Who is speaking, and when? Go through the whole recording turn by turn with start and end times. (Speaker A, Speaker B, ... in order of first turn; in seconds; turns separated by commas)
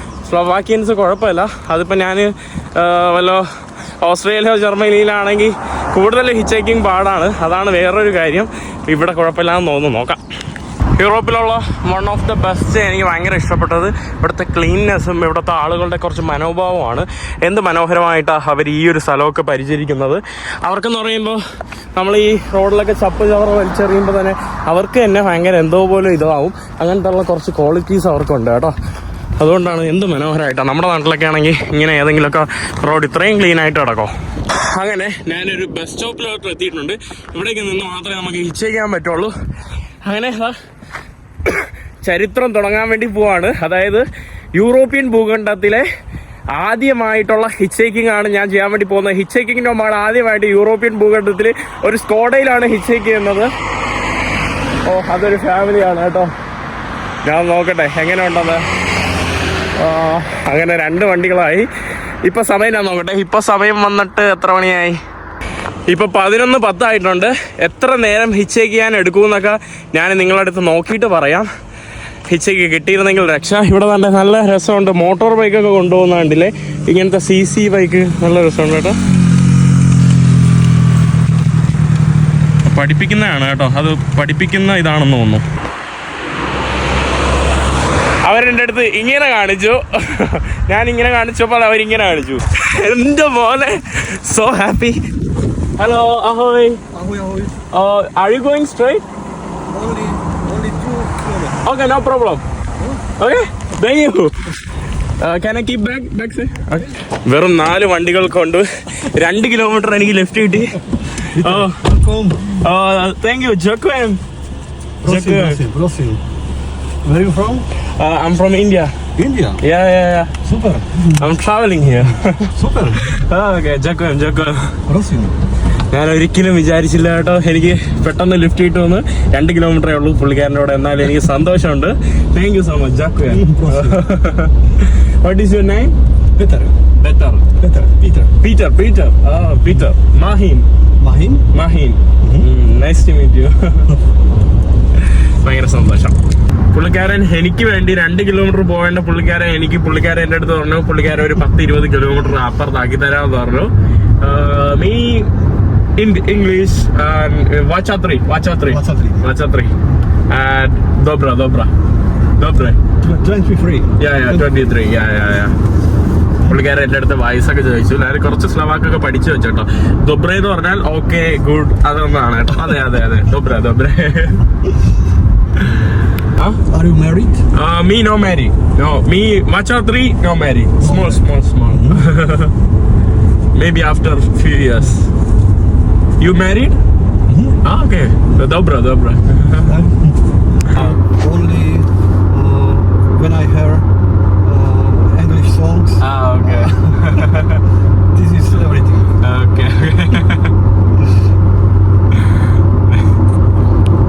Speaker A: 0.3-3.5, Speaker A: 4.0-10.2, Speaker A: 11.0-21.4, Speaker A: 22.0-28.8, Speaker A: 29.4-39.3, Speaker A: 40.0-40.5, Speaker A: 41.5-45.9, Speaker A: 46.5-53.5, Speaker A: 54.9-56.3, Speaker A: 57.2-58.6, Speaker A: 59.8-61.7, Speaker A: 62.3-65.0, Speaker A: 65.9-71.5, Speaker A: 72.3-79.0, Speaker A: 82.7-85.4, Speaker A: 88.3-95.0, Speaker A: 95.8-96.8, Speaker B: 96.9-97.6, Speaker A: 97.7-99.0, Speaker B: 99.7-101.6, Speaker A: 101.6-102.4, Speaker B: 102.8-103.1, Speaker A: 103.2-104.5, Speaker A: 105.2-111.8, Speaker B: 111.3-112.6, Speaker A: 112.6-114.2, Speaker B: 115.0-116.2, Speaker A: 115.0-115.6, Speaker B: 117.0-117.7, Speaker A: 118.0-118.9, Speaker B: 119.2-119.6, Speaker A: 119.6-120.3, Speaker B: 120.5-121.2, Speaker A: 121.2-124.8, Speaker B: 122.5-123.1, Speaker B: 124.9-125.3, Speaker A: 125.9-135.9, Speaker B: 133.3-134.0, Speaker B: 136.4-136.8, Speaker A: 137.0-137.5, Speaker B: 137.6-138.4, Speaker A: 138.4-140.7, Speaker B: 141.0-141.4, Speaker A: 141.5-143.9, Speaker B: 142.2-142.5, Speaker A: 145.0-146.2, Speaker A: 146.7-155.3, Speaker A: 156.0-159.7, Speaker B: 158.7-159.2, Speaker A: 160.3-161.7, Speaker A: 162.4-162.8, Speaker B: 163.0-164.4, Speaker A: 164.0-165.6, Speaker A: 166.5-174.4, Speaker B: 176.7-177.4, Speaker A: 177.5-182.5, Speaker B: 180.8-182.1, Speaker A: 183.6-185.1, Speaker A: 186.2-186.8, Speaker B: 187.3-187.6, Speaker A: 187.6-189.8, Speaker B: 189.7-193.9, Speaker A: 190.7-191.0, Speaker B: 194.4-196.0, Speaker A: 196.0-197.6, Speaker B: 198.1-199.1, Speaker A: 199.2-200.5